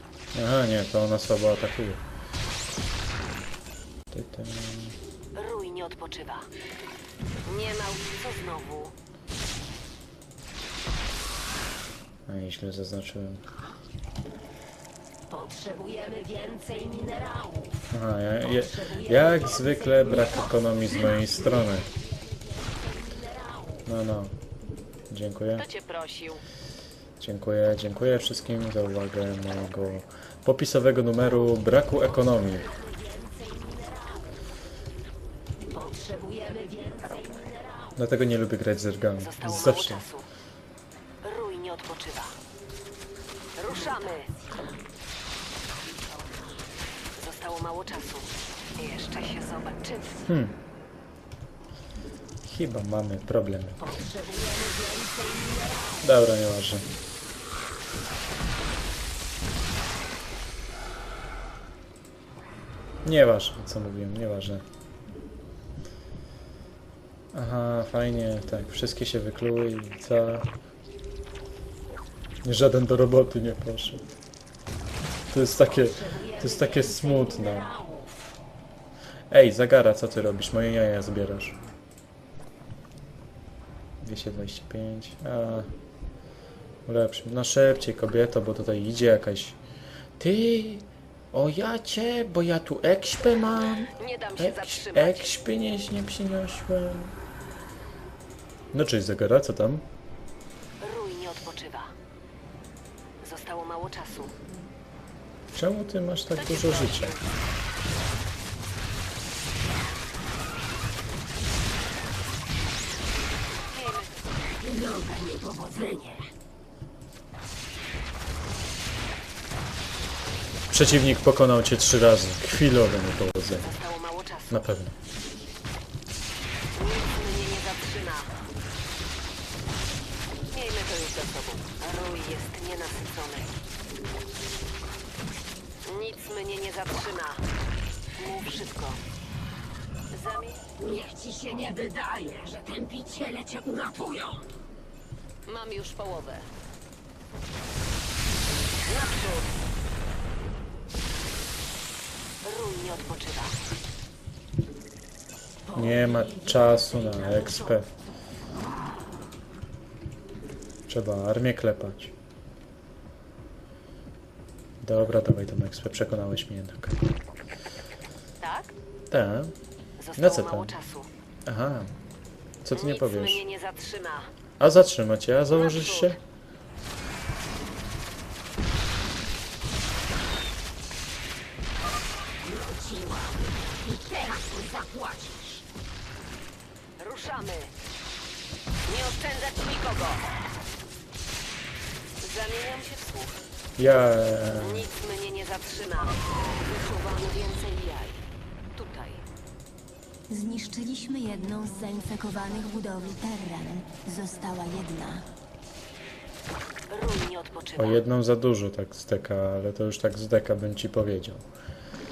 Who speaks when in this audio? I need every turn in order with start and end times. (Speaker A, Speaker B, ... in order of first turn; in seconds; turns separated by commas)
Speaker A: 0.3-2.0, Speaker A: 4.1-5.0, Speaker B: 5.3-6.5, Speaker B: 7.4-8.9, Speaker A: 12.3-13.4, Speaker C: 15.3-17.8, Speaker A: 17.9-21.9, Speaker C: 18.4-23.9, Speaker A: 23.9-24.3, Speaker A: 25.1-25.7, Speaker B: 25.6-26.4, Speaker A: 27.2-32.7, Speaker C: 31.3-34.4, Speaker C: 35.7-38.0, Speaker A: 38.0-40.0, Speaker B: 39.2-40.3, Speaker B: 41.2-42.4, Speaker B: 43.6-44.3, Speaker C: 43.6-44.8, Speaker C: 45.7-46.7, Speaker B: 47.1-50.3, Speaker A: 50.3-50.6, Speaker A: 52.4-53.8, Speaker C: 53.8-56.1, Speaker A: 56.0-56.9, Speaker A: 63.0-64.6, Speaker A: 67.3-70.5, Speaker A: 72.4-74.0, Speaker A: 75.3-77.7, Speaker C: 75.5-78.4, Speaker A: 79.3-81.6, Speaker A: 84.0-85.7, Speaker A: 86.8-89.6, Speaker A: 90.2-97.1, Speaker B: 93.8-95.3, Speaker A: 98.7-99.8, Speaker B: 100.8-101.9, Speaker B: 103.2-104.3, Speaker A: 105.5-107.2, Speaker B: 106.3-107.4, Speaker B: 113.7-114.2, Speaker C: 114.6-116.2, Speaker A: 120.7-123.7, Speaker B: 123.6-124.7, Speaker A: 124.5-124.9, Speaker B: 126.7-128.3, Speaker B: 130.5-133.6, Speaker B: 135.8-137.4, Speaker B: 138.2-139.0, Speaker B: 140.1-140.6, Speaker C: 140.8-144.5, Speaker B: 145.4-146.5, Speaker B: 148.9-149.5, Speaker B: 152.4-153.6, Speaker C: 155.6-157.9, Speaker A: 155.7-157.9, Speaker A: 160.9-162.1, Speaker A: 164.8-167.1, Speaker B: 168.4-168.7, Speaker A: 169.1-169.5, Speaker B: 170.0-171.1, Speaker A: 170.2-170.7, Speaker A: 171.4-171.9, Speaker A: 172.6-173.4, Speaker B: 172.7-174.3, Speaker A: 174.6-176.2, Speaker B: 175.5-176.2, Speaker C: 182.4-185.7, Speaker B: 187.0-187.7, Speaker B: 188.8-190.3, Speaker B: 192.2-193.4, Speaker A: 193.8-194.9, Speaker B: 194.4-198.2, Speaker B: 198.7-199.2, Speaker D: 200.3-205.2, Speaker B: 206.9-208.0, Speaker A: 207.8-211.4